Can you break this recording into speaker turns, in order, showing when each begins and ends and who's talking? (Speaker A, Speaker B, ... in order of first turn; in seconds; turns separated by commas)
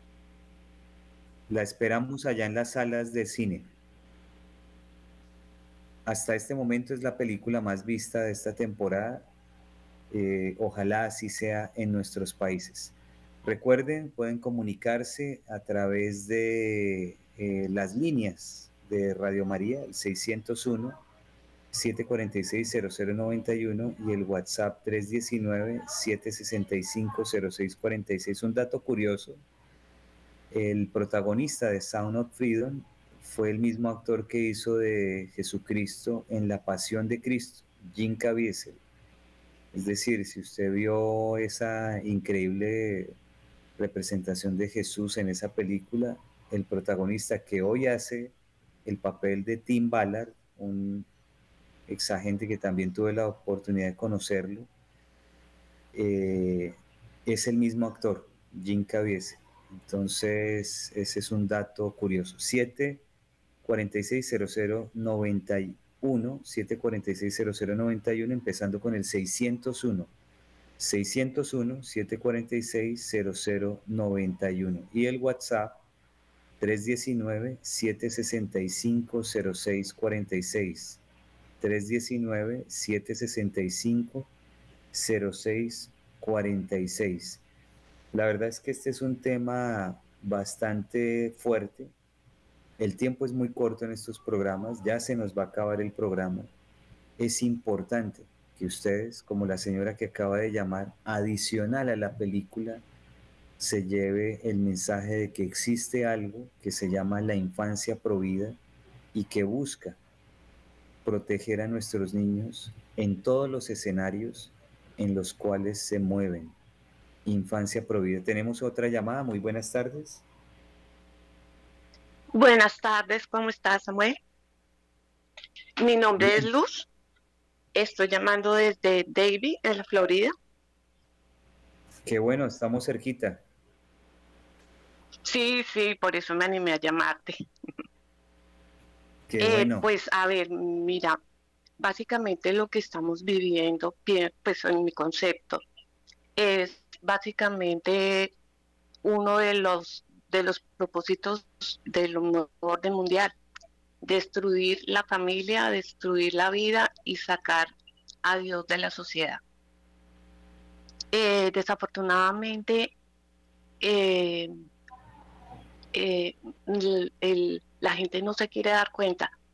Speaker A: 1.5-3.7, Speaker A: 6.1-9.3, Speaker A: 10.1-12.9, Speaker A: 13.4-21.0, Speaker A: 21.7-29.4, Speaker A: 30.5-38.8, Speaker A: 39.7-43.1, Speaker A: 43.8-48.3, Speaker A: 48.9-51.1, Speaker A: 51.9-54.7, Speaker A: 55.9-63.0, Speaker A: 63.6-70.1, Speaker A: 70.8-75.8, Speaker A: 76.6-81.0, Speaker A: 81.6-84.3, Speaker A: 84.9-87.4, Speaker A: 88.1-91.9, Speaker A: 92.8-96.5, Speaker A: 97.2-102.8, Speaker A: 103.6-108.6, Speaker A: 109.1-110.0, Speaker A: 111.0-116.5, Speaker A: 117.2-120.2, Speaker B: 122.3-124.2, Speaker B: 125.8-126.9, Speaker A: 126.2-126.5, Speaker B: 127.8-130.3, Speaker A: 132.1-133.4, Speaker B: 135.2-137.4, Speaker A: 139.3-139.9, Speaker B: 139.4-141.2, Speaker B: 141.8-145.6, Speaker B: 146.4-148.3, Speaker B: 149.0-153.3, Speaker B: 154.0-157.7, Speaker B: 158.2-159.4, Speaker B: 161.1-162.9, Speaker B: 163.8-164.5, Speaker B: 165.9-169.3